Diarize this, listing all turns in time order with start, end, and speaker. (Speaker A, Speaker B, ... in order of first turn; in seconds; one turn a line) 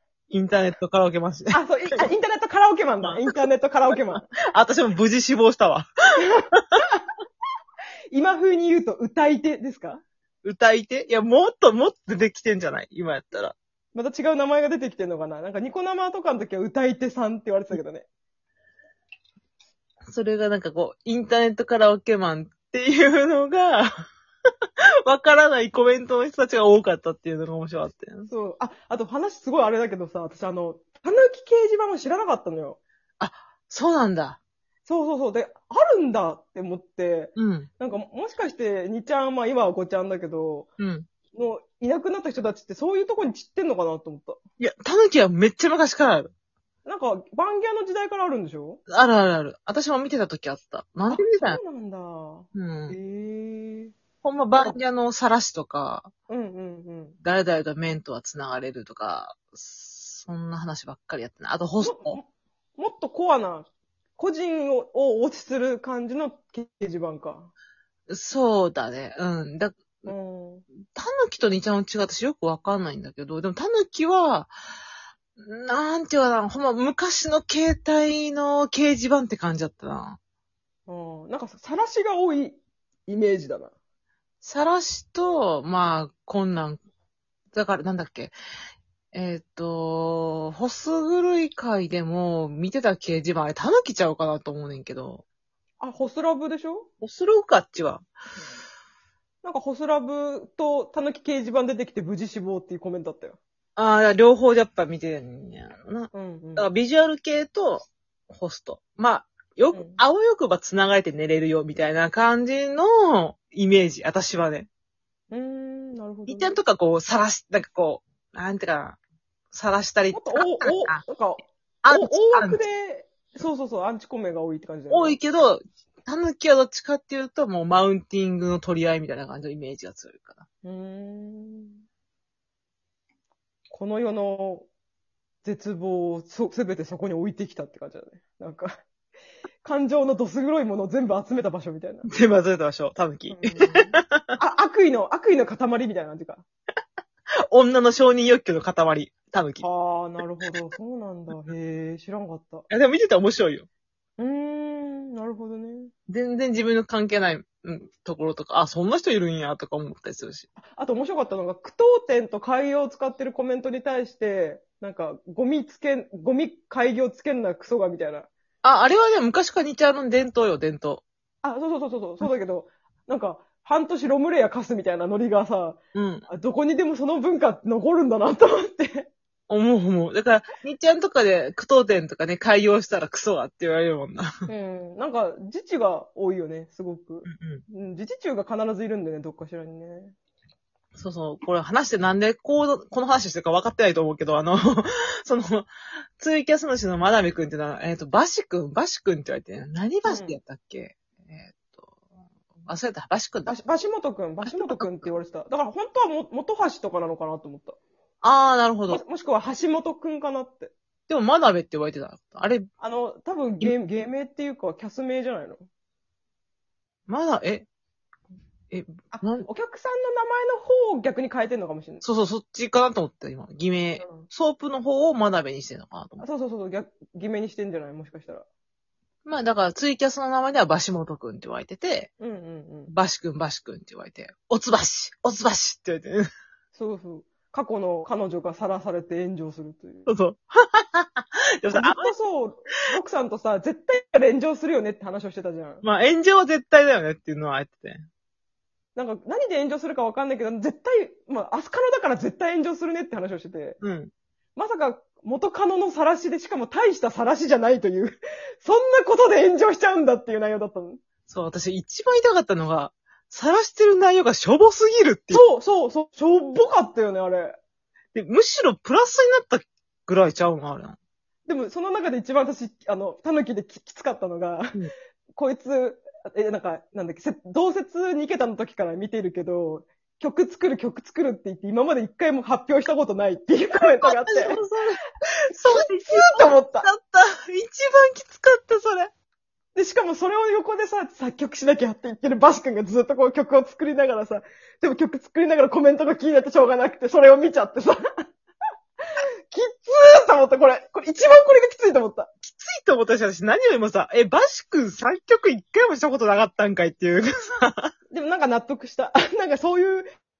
Speaker A: 0.3-2.1
Speaker B: 1.5-4.2
Speaker A: 3.0-3.3
Speaker A: 4.5-5.9
Speaker B: 6.4-6.8
Speaker B: 8.1-10.0
Speaker A: 10.4-13.5
Speaker B: 13.9-18.1
Speaker A: 20.1-24.0
Speaker A: 25.1-28.3
Speaker B: 28.3-32.8
Speaker A: 33.2-34.4
Speaker B: 34.9-40.7
Speaker A: 37.4-37.7
Speaker A: 40.8-41.1
Speaker B: 41.3-44.4
Speaker A: 44.6-46.3
Speaker B: 46.9-48.8
Speaker A: 48.9-51.6
Speaker B: 51.1-53.9
Speaker A: 52.5-53.0
Speaker A: 54.2-56.1
Speaker B: 56.3-57.2
Speaker A: 57.2-62.2
Speaker B: 61.8-67.5
Speaker A: 68.1-70.1
Speaker B: 70.0-70.6
Speaker A: 70.9-74.5
Speaker A: 75.4-80.2
Speaker B: 80.9-83.7
Speaker A: 84.4-86.8
Speaker A: 87.5-88.3
Speaker A: 89.1-95.2
Speaker B: 95.8-96.9
Speaker A: 97.0-98.1
Speaker B: 99.4-103.4
Speaker A: 103.8-114.7
Speaker B: 106.1-106.7
Speaker B: 109.7-110.0
Speaker B: 115.3-116.5
Speaker A: 116.3-119.0
Speaker A: 119.5-121.0
Speaker B: 120.1-125.2
Speaker A: 121.8-122.6
Speaker A: 124.9-130.4
Speaker B: 130.6-131.8
Speaker B: 133.7-134.7
Speaker B: 135.4-138.8
Speaker B: 139.6-142.1
Speaker A: 142.0-144.3
Speaker B: 143.3-146.4
Speaker A: 147.5-149.6
Speaker B: 149.6-152.7
Speaker A: 152.7-153.7
Speaker B: 154.2-155.9
Speaker A: 156.1-160.5
Speaker B: 160.6-168.3
Speaker A: 168.6-171.0
Speaker B: 171.4-179.1
Speaker A: 175.9-176.2
Speaker A: 179.5-184.3
Speaker B: 184.5-190.1
Speaker A: 187.3-187.6
Speaker A: 190.9-201.9
Speaker B: 200.0-200.4
Speaker A: 202.7-203.5
Speaker B: 203.5-207.8
Speaker A: 204.4-205.1
Speaker A: 208.2-209.0
Speaker B: 208.9-210.7
Speaker A: 211.1-212.7
Speaker B: 212.8-215.7
Speaker A: 217.1-217.7
Speaker A: 218.7-219.5
Speaker B: 219.1-222.0
Speaker A: 222.0-226.2
Speaker B: 224.0-224.3
Speaker B: 226.2-228.4
Speaker A: 229.2-232.1
Speaker B: 232.2-232.9
Speaker A: 232.9-236.3
Speaker B: 236.7-240.1
Speaker A: 240.1-242.1
Speaker B: 241.7-245.8
Speaker A: 245.8-248.0
Speaker B: 248.9-253.8
Speaker A: 253.8-254.1
Speaker B: 254.6-261.0
Speaker A: 261.3-265.4
Speaker B: 265.3-267.6
Speaker A: 268.1-271.0
Speaker B: 271.4-274.7
Speaker B: 275.4-284.6
Speaker A: 284.0-289.1
Speaker B: 285.7-286.9
Speaker B: 289.7-298.0
Speaker B: 299.5-302.3
Speaker A: 302.4-307.9
Speaker B: 308.1-310.1